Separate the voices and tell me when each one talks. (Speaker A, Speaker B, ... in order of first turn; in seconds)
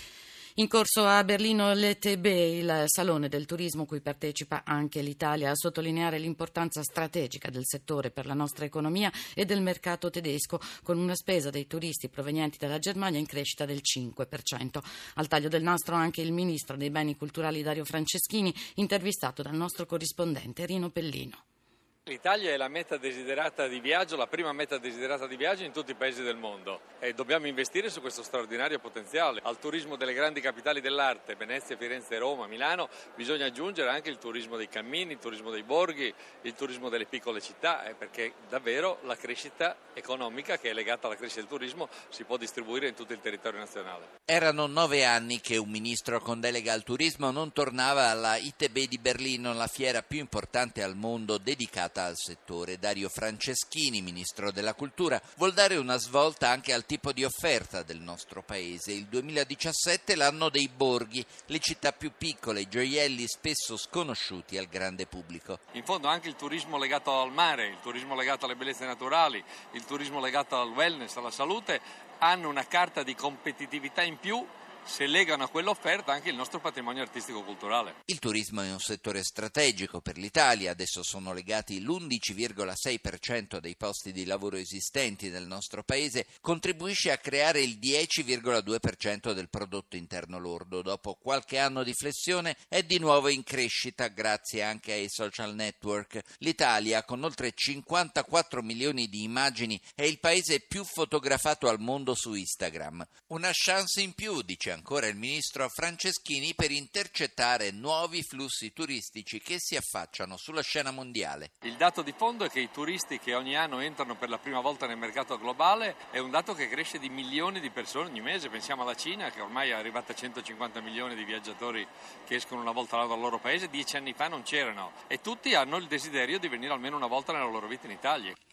Speaker A: 0.6-21.4
Speaker B: 22.1-44.1, 65.7-78.0, 111.6-128.3
Speaker C: 44.3-65.6, 78.1-111.5